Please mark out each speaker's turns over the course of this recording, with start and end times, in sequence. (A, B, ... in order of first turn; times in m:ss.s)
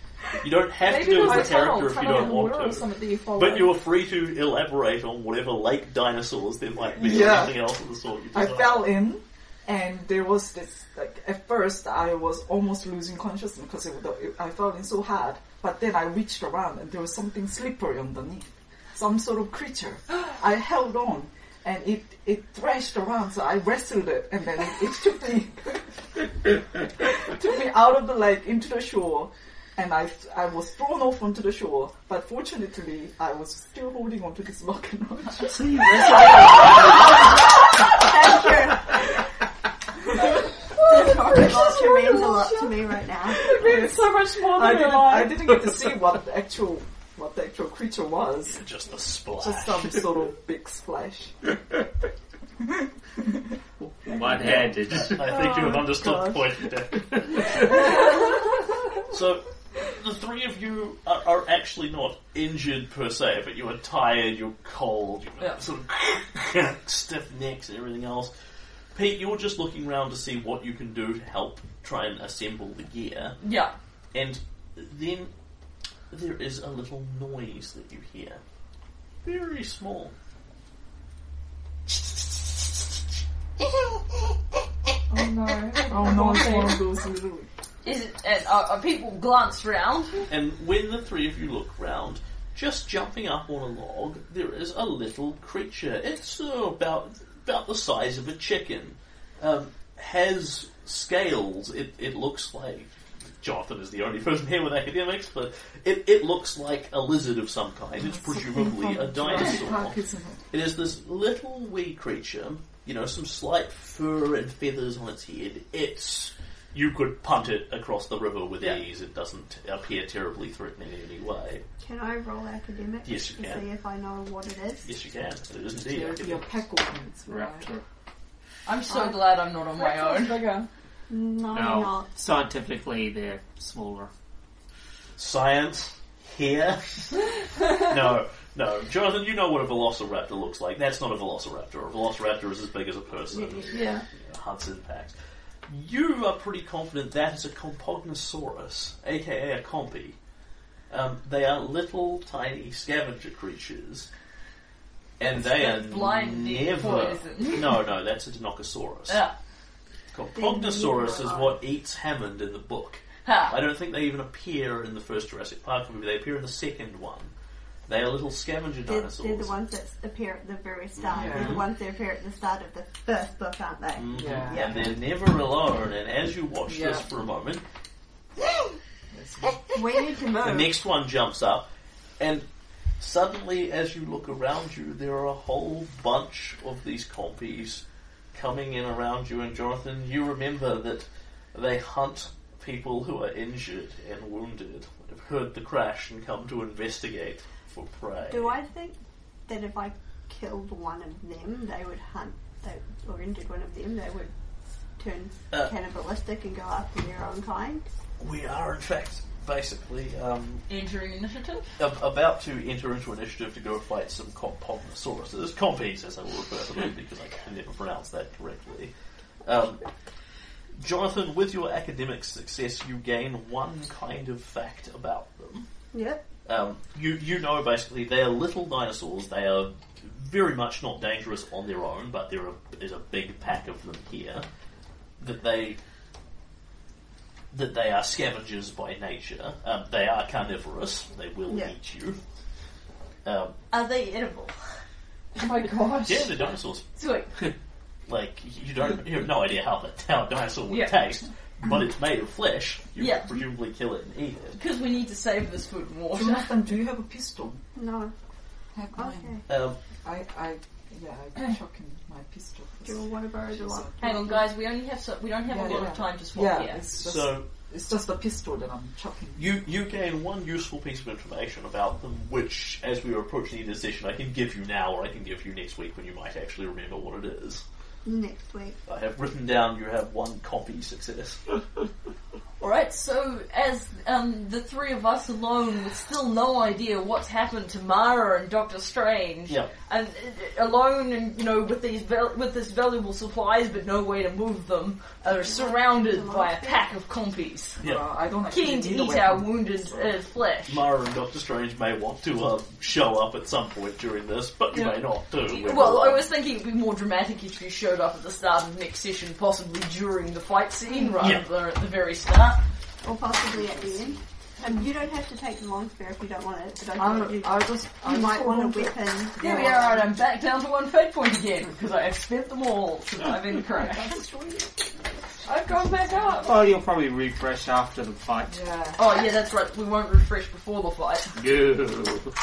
0:00.4-0:09.0 A
0:00.8-0:03.8 B
0:01.2-0:01.6 C
0:07.0-0:07.6 C
0:08.3-0:36.7 C
0:35.5-0:36.7 D
0:35.7-0:37.0 E
0:37.2-0:39.1 F
0:40.8-0:43.6 F
0:40.8-0:42.7 B
0:43.3-0:48.6 C
0:43.4-0:45.6 B
0:48.5-0:50.0 A
0:49.3-0:51.4 C
0:53.8-0:55.4 D
0:54.3-0:58.2 A
0:55.3-0:56.2 F
0:59.0-1:08.3 A
1:09.0-1:13.4 A
1:13.4-1:13.7 E
1:14.1-1:15.3 A
1:16.1-1:18.4 A
1:19.2-1:20.1 A
1:25.1-1:26.9 B
1:25.8-1:27.5 C
1:27.8-1:30.2 E
1:30.3-1:50.0 A
1:48.0-1:50.4 C
1:50.5-2:01.6 A
2:01.8-2:04.9 F
2:03.0-2:03.7 A
2:04.8-2:06.5 A
2:05.9-2:07.8 C
2:07.4-2:07.8 D
2:08.7-2:10.4 E
2:08.9-2:09.2 F
2:09.8-2:10.7 B
2:11.1-2:12.1 F
2:11.5-2:14.1 D
2:15.2-2:25.1 A
2:23.3-2:23.9 F
2:23.7-2:24.0 B
2:25.7-2:30.2 A
2:30.9-2:34.1 A
2:35.2-2:39.2 A
2:35.2-2:37.7 E
2:39.1-2:39.3 E
2:40.1-2:47.3 A
2:40.4-2:41.6 F
2:43.2-2:43.6 E
2:47.9-2:49.5 A
2:48.9-2:55.0 F
2:51.0-2:51.6 A
2:51.1-2:51.6 C
2:54.0-2:57.6 A
2:54.1-2:54.8 C
2:56.7-2:57.1 C
2:59.1-2:59.7 C
2:59.7-3:00.8 F
3:00.4-3:01.7 A
3:02.2-3:02.4 A
3:03.0-3:18.6 A
3:18.3-3:24.3 F
3:25.0-3:27.9 F
3:28.2-3:30.7 A
3:30.7-3:31.7 E
3:31.8-3:38.9 A
3:39.4-3:39.8 A
3:40.8-3:45.7 A
3:45.9-3:46.2 F
3:46.4-3:54.4 A
3:55.2-3:55.8 A
3:57.5-4:02.2 A
4:01.5-4:01.7 F
4:03.2-4:03.6 A
4:03.7-4:04.6 E
4:05.4-4:06.3 B
4:06.0-4:06.9 A
4:07.0-4:07.5 E
4:08.1-4:14.6 A
4:10.7-4:11.0 E
4:13.0-4:13.4 E
4:14.6-4:16.5 E
4:16.1-4:17.6 C
4:17.8-4:18.1 F
4:18.7-4:19.4 C
4:18.9-4:19.4 F
4:19.5-4:19.8 A
4:20.0-4:24.0 C
4:22.8-4:24.4 F
4:24.0-4:26.8 E
4:25.5-4:29.5 C
4:27.0-4:27.5 A
4:29.4-4:37.6 A
4:38.0-4:38.8 F
4:38.9-4:41.4 A
4:42.6-4:57.8 E
4:55.4-4:56.9 F
4:57.8-4:59.9 C
4:58.5-5:00.8 E
5:00.7-5:06.3 A
5:04.7-5:12.6 E
5:13.0-5:19.8 F
5:17.0-5:20.1 C
5:19.4-5:24.2 E
5:23.8-5:24.8 C
5:25.5-5:26.5 B
5:26.4-5:28.7 D
5:28.5-5:29.0 C
5:29.0-5:31.3 E
5:31.4-5:32.3 D